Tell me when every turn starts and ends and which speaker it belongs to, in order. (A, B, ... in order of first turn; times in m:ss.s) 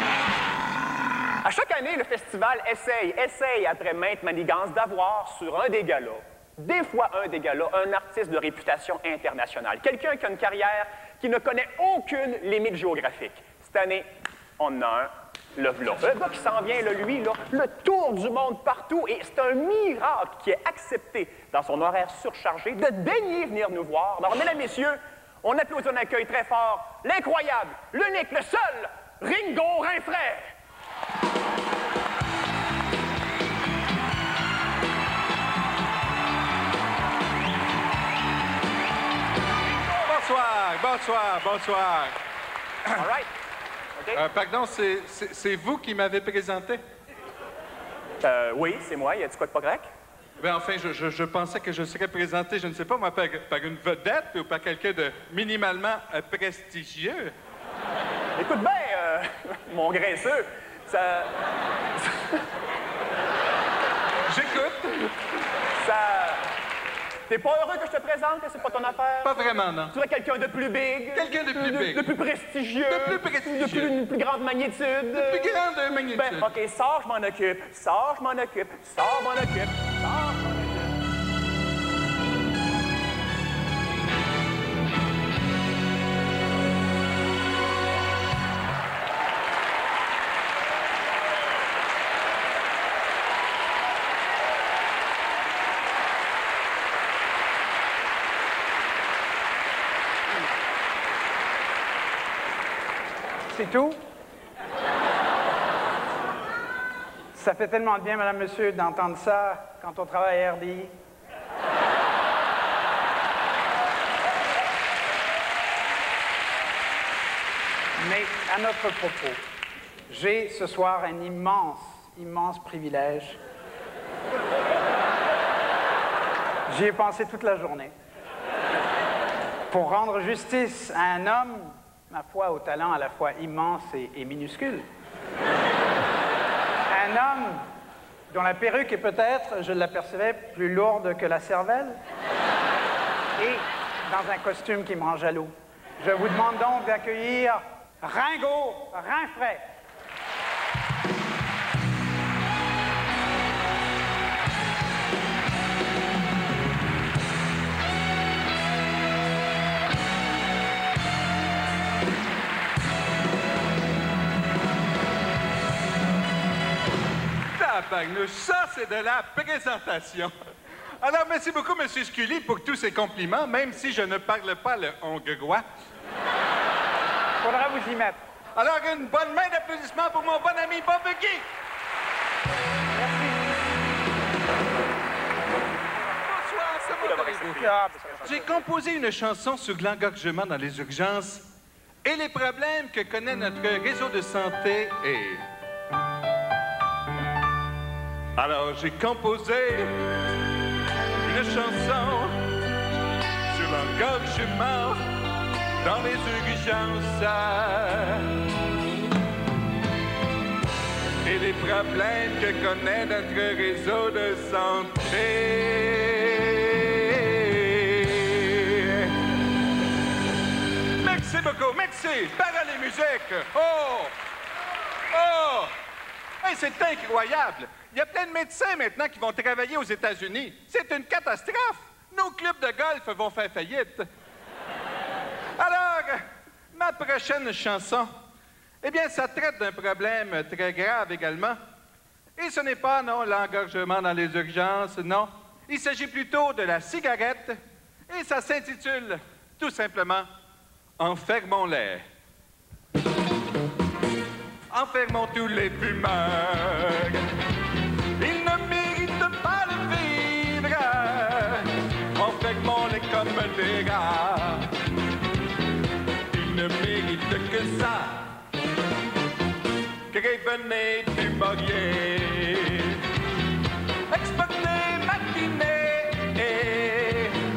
0:01.4-0:14.1 A
0:14.6-0:30.5 A
0:40.0-0:42.2 B
0:42.9-0:43.3 A
0:44.1-0:46.8 B
0:48.2-0:49.9 A
0:50.4-0:57.3 B
0:58.4-1:01.3 A
1:02.0-1:02.4 A
1:04.3-1:05.1 B
1:05.8-1:06.5 A
1:07.3-1:15.6 A
1:09.2-1:09.9 B
1:11.1-1:12.1 B
1:12.9-1:13.9 B
1:15.1-1:16.5 B
1:16.1-1:20.9 A
1:43.5-1:44.0 C
1:47.3-1:50.9 C
1:58.0-1:59.4 C
2:00.1-2:03.4 C
2:06.7-2:07.9 C
2:09.7-2:14.9 C
2:16.9-2:17.6 C
2:18.3-2:22.0 C
2:23.4-2:29.6 C
2:47.5-2:50.3 B
2:51.0-2:55.6 B
2:57.4-2:58.2 C
2:58.6-3:01.4 B
3:03.0-3:03.3 C
3:06.3-3:07.7 B
3:06.8-3:08.4 A
3:08.2-3:11.4 B
3:12.0-3:15.4 B
3:18.4-3:19.9 B
3:21.2-3:22.4 B
3:23.5-3:25.0 B
3:25.8-3:28.3 B
3:31.2-3:39.1 B
3:41.0-3:44.1 B
3:45.1-3:45.7 B
3:46.4-3:54.1 B
3:55.6-3:58.1 B
3:58.8-4:01.6 B
4:02.4-4:10.3 B
4:11.0-4:12.0 B
4:14.7-4:17.2 B
4:18.2-4:24.7 B
4:26.3-4:28.2 B
4:30.1-4:33.0 B
4:34.1-4:37.4 B